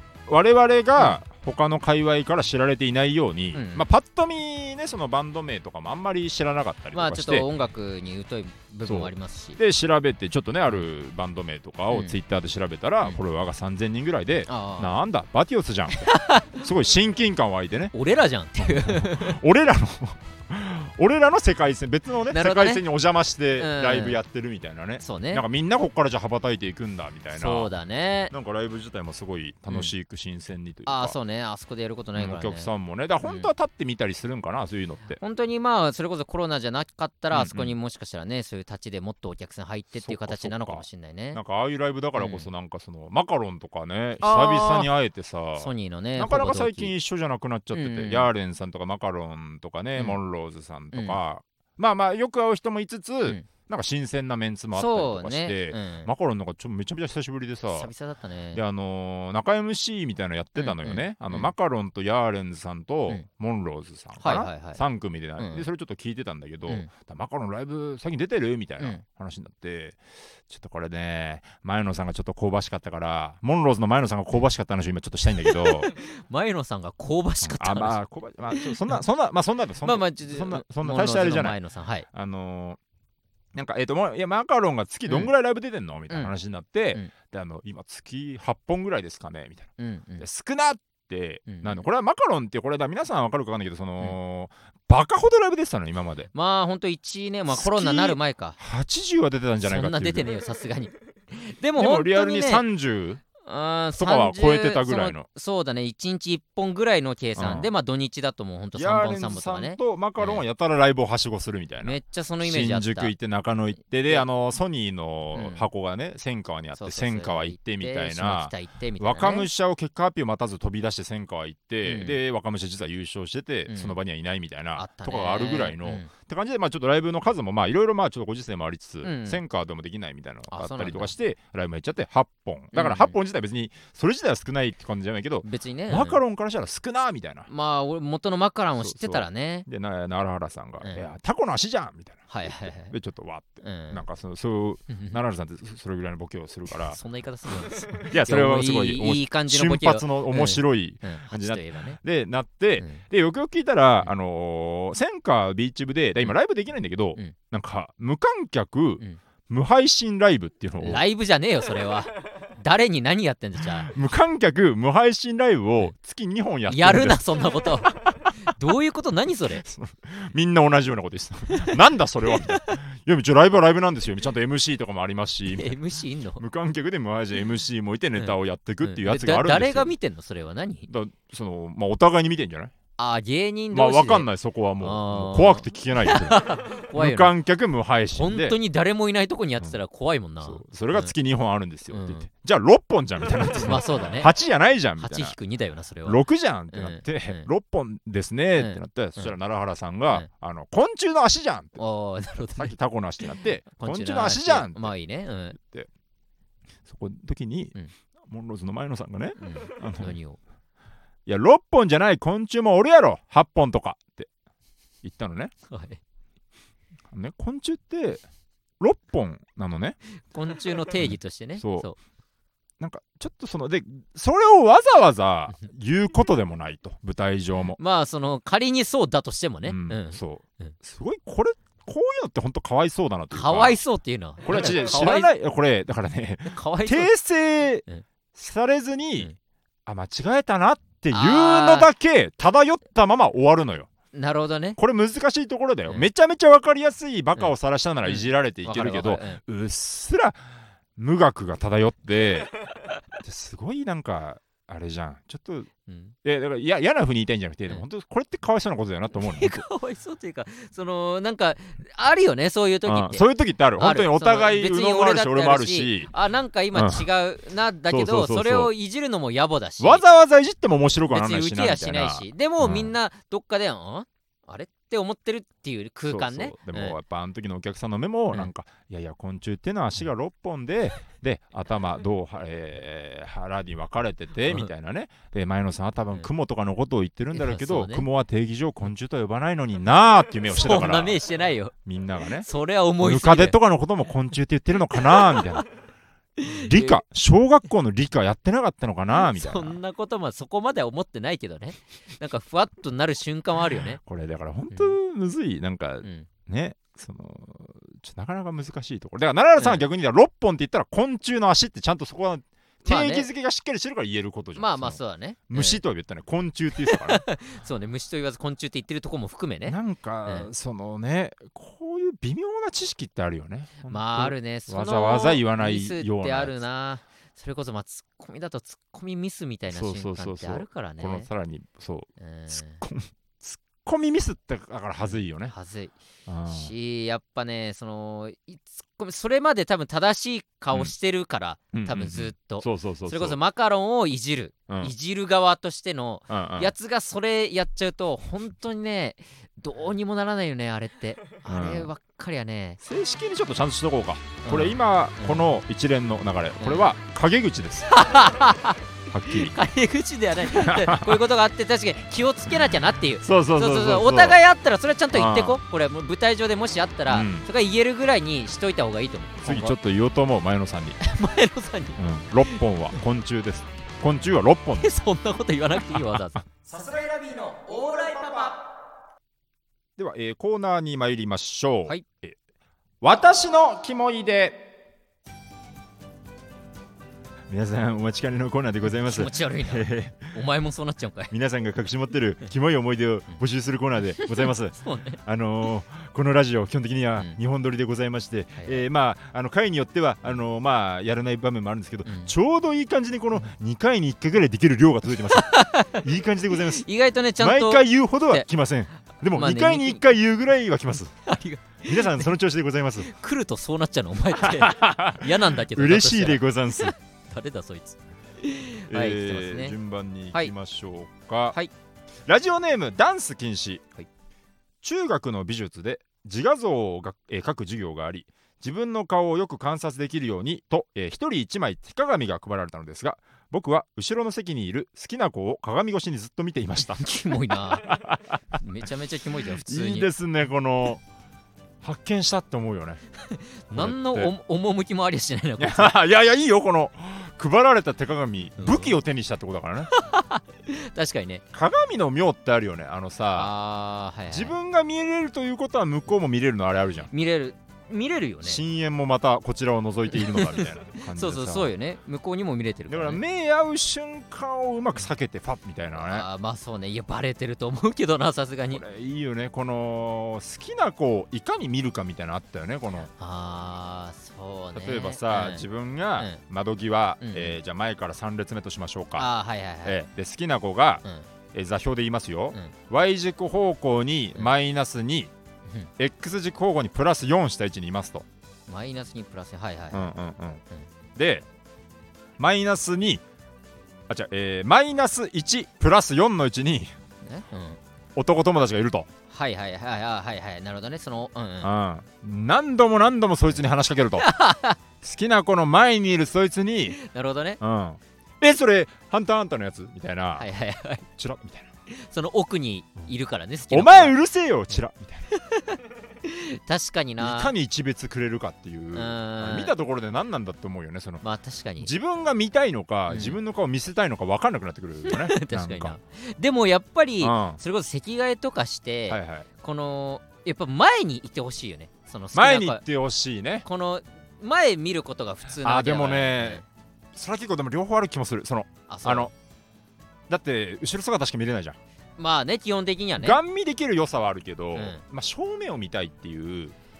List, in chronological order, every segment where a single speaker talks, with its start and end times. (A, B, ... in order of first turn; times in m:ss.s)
0:00.3-0:07.5 A
0:03.5-0:03.8 B
0:06.9-0:09.6 B
0:08.8-0:17.9 A
0:11.9-0:12.2 B
0:14.5-0:15.0 B
0:16.0-0:16.6 B
0:17.9-0:19.4 B
0:18.6-0:27.7 A
0:22.3-0:22.8 B
0:23.6-0:24.2 B
0:25.0-0:25.4 B
0:27.3-0:28.3 B
0:28.3-0:31.2 A
0:30.8-0:32.7 B
0:32.2-0:35.2 A
0:33.2-0:33.5 B
0:35.2-0:41.4 B
0:37.3-0:37.7 A
0:40.0-0:57.9 A
0:42.2-0:42.5 B
0:44.2-0:44.9 B
0:45.6-0:46.9 B
0:47.7-0:48.3 B
0:50.9-0:51.2 B
0:54.7-0:56.1 B
0:57.7-0:58.6 B
0:58.5-1:15.9 A
1:00.6-1:01.5 B
1:04.2-1:04.8 B
1:05.4-1:05.6 B
1:15.4-1:18.0 B
1:17.4-1:21.6 A
1:18.5-1:19.0 B
1:19.8-1:22.1 B
1:22.1-1:22.8 A
1:23.5-1:29.7 A
1:25.1-1:25.3 B
1:29.8-1:30.2 B
1:30.2-1:36.3 A
1:31.5-1:31.8 B
1:36.3-1:38.6 B
1:37.5-1:40.3 A
1:39.6-1:42.6 B
1:41.8-1:43.2 A
1:43.4-1:50.4 B
1:44.0-1:45.3 A
1:47.4-1:47.7 A
1:48.7-2:17.5 A
1:51.8-1:53.1 B
1:55.3-1:55.7 B
1:56.8-1:59.5 B
2:01.8-2:02.2 B
2:03.7-2:04.0 B
2:04.8-2:06.1 B
2:09.0-2:09.4 B
2:10.5-2:11.1 B
2:12.7-2:13.2 B
2:15.4-2:16.2 B
2:17.5-2:19.7 B
2:18.8-2:27.0 A
2:22.3-2:22.9 B
2:23.6-2:24.0 B
2:24.9-2:25.2 B
2:26.7-2:32.0 B
2:28.0-2:41.0 A
2:40.8-2:43.9 B
2:43.7-2:48.5 A
2:46.7-2:49.6 B
2:49.6-2:55.8 A
2:51.5-2:52.8 B
2:55.5-2:56.4 B
2:56.4-2:59.9 A
2:58.2-3:00.9 B
3:00.9-3:02.7 A
3:03.0-3:04.3 B
3:03.7-3:08.6 A
3:04.8-3:07.3 B
3:08.2-3:11.1 B
3:10.4-3:15.3 A
3:11.9-3:12.3 B
3:13.5-3:14.3 B
3:15.0-3:17.5 B
3:16.0-3:21.8 A
3:18.6-3:19.3 B
3:21.8-3:22.7 B
3:22.6-3:24.9 A
3:23.7-3:25.6 B
3:25.6-3:25.9 A
3:26.9-3:27.7 A
3:28.3-3:30.2 A
3:29.4-3:30.4 B
3:31.2-3:34.3 A
3:35.0-3:35.5 A
3:35.7-3:36.0 B
3:37.1-3:38.2 A
3:38.8-3:40.0 A
3:40.3-3:42.0 B
3:41.0-3:41.9 A
3:42.8-3:47.8 A
3:47.8-3:50.7 B
3:49.6-3:53.8 A
3:53.3-3:55.3 B
3:54.4-3:59.3 A
3:56.5-3:57.1 B
3:59.8-4:03.9 A
4:01.1-4:01.9 B
4:04.1-4:04.8 B
4:04.8-4:10.4 A
4:08.0-4:09.4 B
4:11.0-4:12.5 A
4:13.2-4:15.7 A
4:15.9-4:16.1 B
4:16.2-4:19.6 A
4:19.2-4:30.0 B
4:22.8-4:26.1 A
4:26.7-4:27.0 A
4:27.9-4:28.7 A
4:29.8-4:32.9 A
4:31.1-4:37.0 B
4:36.1-4:51.2 A
4:47.3-4:48.0 B
4:50.5-4:51.7 B
4:51.8-4:52.5 A
4:52.4-4:53.6 B
4:53.0-4:55.6 A
4:55.0-4:55.5 B
4:56.4-4:57.0 B
4:56.5-4:59.8 A
4:59.1-5:04.0 B
5:04.0-5:15.0 A
5:06.0-5:06.3 B
5:09.6-5:09.8 B
5:12.8-5:13.3 B
5:14.6-5:15.8 B
5:15.5-5:17.2 A
5:16.8-5:20.5 B
5:19.6-5:26.6 A
5:23.8-5:31.3 B
5:29.7-5:35.5 A
5:32.2-5:32.8 B
5:35.0-5:36.0 B
5:36.3-5:36.7 A
5:36.5-5:52.8 B
5:41.7-5:43.4 A
5:46.3-5:46.7 A
5:51.4-5:51.9 A
5:52.8-5:58.0 A
5:54.4-5:55.5 B
5:56.6-5:56.9 B
5:57.9-6:09.8 B
5:59.1-5:59.5 A
6:00.5-6:01.2 A
6:03.2-6:04.4 A
6:05.1-6:05.6 A
6:07.1-6:07.5 A
6:09.4-6:11.0 A
6:11.0-6:13.0 B
6:12.0-6:14.9 A
6:14.8-6:18.6 B
6:15.8-6:16.2 A
6:20.0-6:22.4 A
6:23.0-6:24.6 A
6:27.5-6:30.3 A
6:28.8-6:31.3 B
6:31.3-6:46.9 A
6:34.2-6:35.2 B
6:42.0-6:42.3 B
6:45.3-6:48.4 B
6:47.4-6:51.2 A
6:49.3-6:50.0 B
6:51.2-6:52.3 B
6:51.8-6:53.1 A
6:53.0-6:59.7 B
6:54.4-6:56.9 A
6:58.9-7:01.6 A
7:02.3-7:03.8 A
7:04.8-7:18.6 A
7:16.9-7:18.0 B
7:18.6-7:20.1 B
7:19.5-7:21.0 A
7:21.8-7:23.0 A
7:23.2-7:26.0 B
7:23.7-7:24.3 A
7:25.6-7:29.9 A
7:28.6-7:28.9 B
7:29.9-7:31.4 B
7:31.5-7:33.5 A
7:33.4-7:34.5 B
7:34.3-7:37.1 A
7:37.1-7:38.6 B
7:38.4-7:41.7 A
7:40.1-7:43.2 B
7:42.9-7:46.2 A
7:46.0-7:48.8 B
7:48.7-7:53.1 A
7:52.9-7:55.6 B
7:54.7-7:59.3 A
7:57.2-7:57.6 B
7:59.2-8:00.0 B
7:59.8-8:05.3 A
8:06.0-8:08.2 A
8:08.7-8:10.1 B
8:09.9-8:10.6 A
8:11.2-8:11.4 A
8:12.4-8:13.2 A
8:14.1-8:16.9 A
8:17.2-8:17.8 B
8:18.2-8:19.1 A
8:19.3-8:21.7 B
8:21.6-8:24.3 A
8:24.2-8:24.8 B
8:25.0-8:27.0 A
8:26.9-8:27.6 B
8:27.6-8:30.4 A
8:30.4-8:31.0 B
8:31.1-8:31.7 A
8:31.9-8:34.1 B
8:33.7-8:35.3 A
8:35.3-8:37.5 B
8:37.2-8:41.2 A
8:38.9-8:39.7 B
8:41.2-8:41.9 B
8:41.8-8:45.9 A
8:43.1-8:43.4 B
8:45.0-8:52.8 B
8:47.2-8:47.6 A
8:49.1-8:49.5 A
8:52.3-8:53.6 A
8:53.6-8:56.6 B
8:55.6-8:56.6 A
8:57.1-8:59.3 A
8:58.9-8:59.3 B
9:00.3-9:01.8 A
9:02.2-9:03.4 B
9:03.2-9:06.7 A
9:04.7-9:05.0 B